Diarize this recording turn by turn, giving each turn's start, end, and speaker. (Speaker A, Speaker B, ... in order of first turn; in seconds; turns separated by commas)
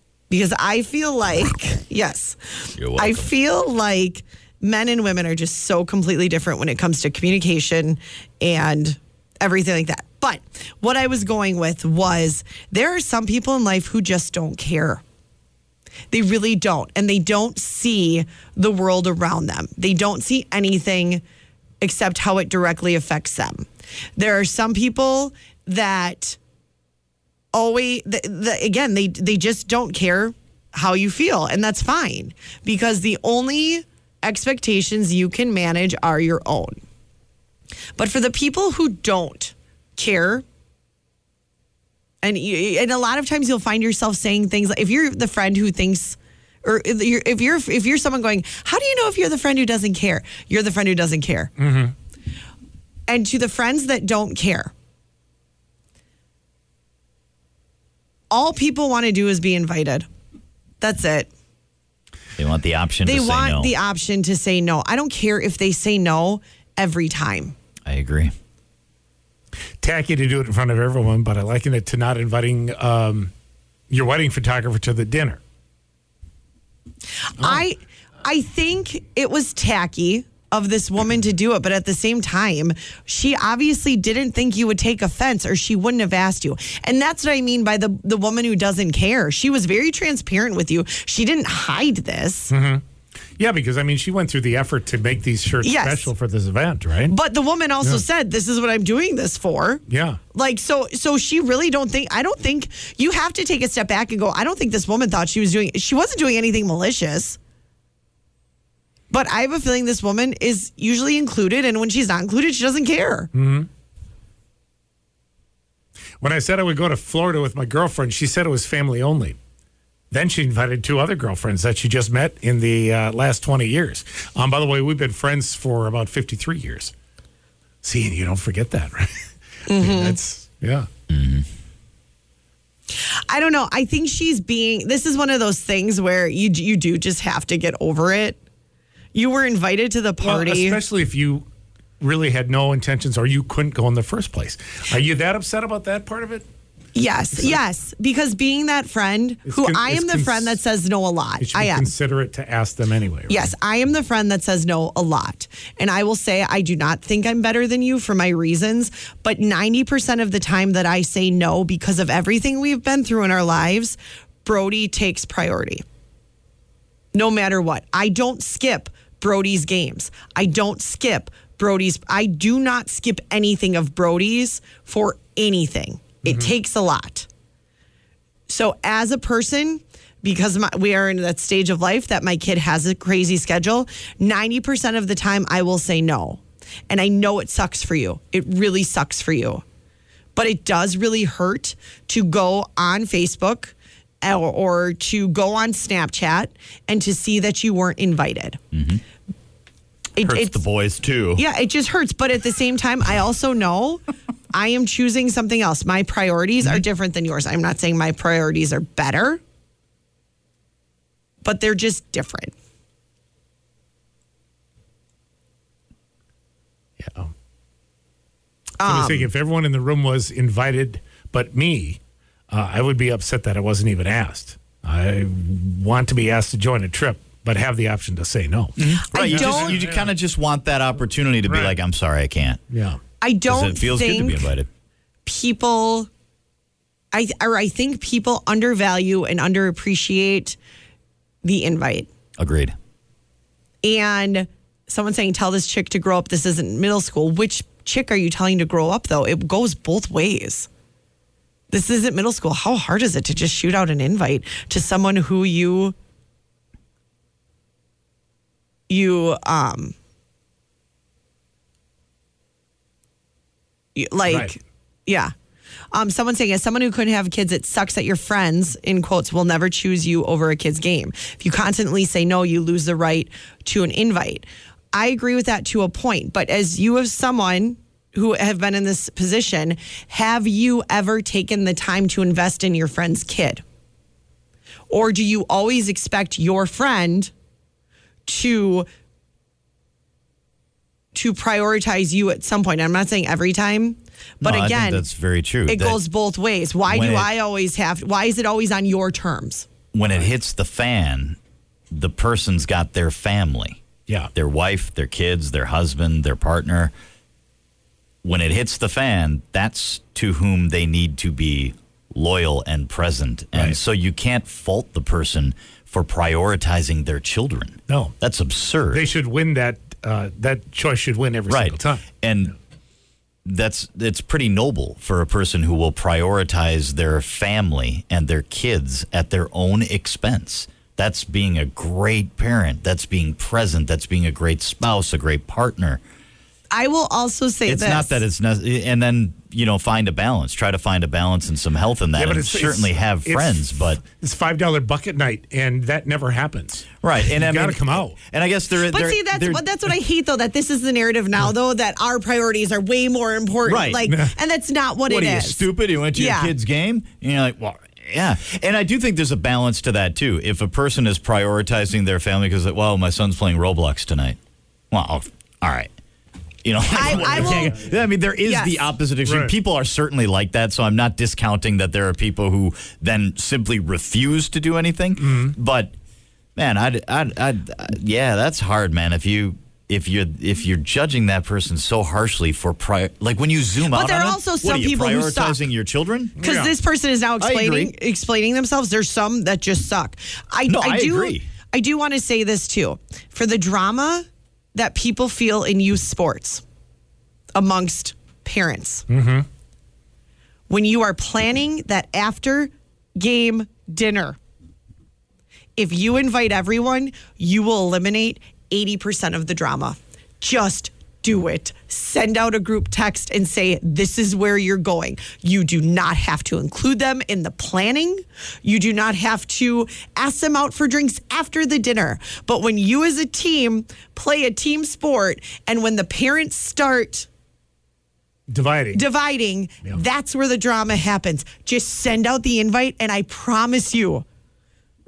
Speaker A: 0.3-15.0, Speaker B: 2.8-3.3, Speaker A: 16.1-21.2, Speaker A: 21.8-23.7, Speaker A: 24.2-26.4, Speaker A: 27.5-36.8, Speaker A: 38.0-40.5, Speaker A: 42.2-51.5, Speaker C: 51.6-51.9, Speaker A: 53.1-54.7, Speaker A: 58.3-60.1, Speaker A: 60.8-61.3, Speaker B: 62.4-63.7, Speaker A: 63.0-67.5, Speaker B: 67.9-68.3, Speaker C: 69.8-73.3, Speaker C: 73.9-75.4, Speaker A: 77.4-92.5, Speaker C: 77.4-77.7, Speaker C: 92.5-92.8, Speaker C: 93.4-97.2, Speaker A: 95.6-96.1, Speaker A: 97.1-99.8, Speaker C: 99.9-100.2, Speaker A: 100.3-107.4, Speaker A: 109.1-113.3, Speaker C: 113.3-113.7, Speaker C: 116.2-119.4, Speaker C: 120.1-126.9, Speaker C: 127.8-130.9, Speaker A: 129.7-130.2, Speaker B: 131.1-131.5, Speaker A: 132.9-138.4, Speaker A: 139.1-140.8, Speaker C: 140.2-141.4, Speaker C: 142.0-146.5, Speaker A: 146.9-151.9, Speaker C: 149.5-150.6, Speaker C: 151.4-153.5, Speaker A: 153.3-165.8, Speaker A: 167.1-177.3, Speaker C: 176.3-176.5, Speaker A: 178.5-189.6, Speaker A: 190.4-198.6, Speaker B: 198.7-199.0, Speaker A: 200.2-200.6, Speaker B: 200.2-201.4, Speaker A: 201.4-209.4, Speaker A: 211.4-212.5, Speaker C: 217.0-217.3, Speaker A: 218.8-219.3, Speaker C: 218.8-222.0, Speaker C: 222.5-230.1, Speaker B: 228.8-232.6, Speaker A: 229.1-229.8, Speaker C: 231.5-231.8, Speaker C: 232.7-233.0, Speaker A: 233.2-234.5, Speaker B: 233.5-234.7, Speaker A: 235.3-236.1, Speaker A: 237.1-240.6, Speaker A: 241.4-242.1, Speaker B: 242.4-242.8, Speaker A: 243.8-250.7, Speaker A: 251.7-255.9, Speaker A: 258.9-259.9, Speaker A: 264.0-265.3, Speaker A: 265.9-283.6, Speaker A: 284.9-287.3, Speaker A: 288.3-288.9, Speaker A: 291.1-295.0, Speaker B: 294.4-296.0, Speaker A: 295.7-299.7, Speaker B: 296.9-297.3, Speaker B: 299.9-301.4, Speaker B: 301.9-303.8, Speaker B: 304.4-306.9, Speaker B: 308.2-319.1, Speaker C: 317.9-318.1, Speaker C: 318.9-322.1, Speaker B: 321.5-322.5, Speaker B: 323.4-336.0, Speaker A: 336.7-338.2, Speaker B: 337.7-344.0, Speaker C: 342.2-348.2, Speaker B: 347.0-349.6, Speaker A: 348.9-356.5, Speaker B: 353.7-354.1, Speaker C: 354.1-354.3, Speaker B: 355.1-364.4, Speaker B: 364.9-365.9, Speaker B: 366.6-375.9, Speaker A: 366.9-367.8, Speaker C: 367.0-367.8, Speaker A: 368.4-368.8, Speaker C: 369.2-369.5, Speaker C: 375.2-375.6, Speaker B: 376.6-386.4, Speaker A: 383.9-385.6, Speaker C: 386.4-386.7, Speaker A: 386.4-396.6, Speaker B: 387.4-387.9, Speaker B: 390.7-391.4, Speaker A: 397.6-399.1, Speaker C: 399.1-399.5, Speaker A: 400.7-404.4, Speaker A: 405.8-427.3, Speaker C: 428.5-429.0, Speaker A: 428.9-434.2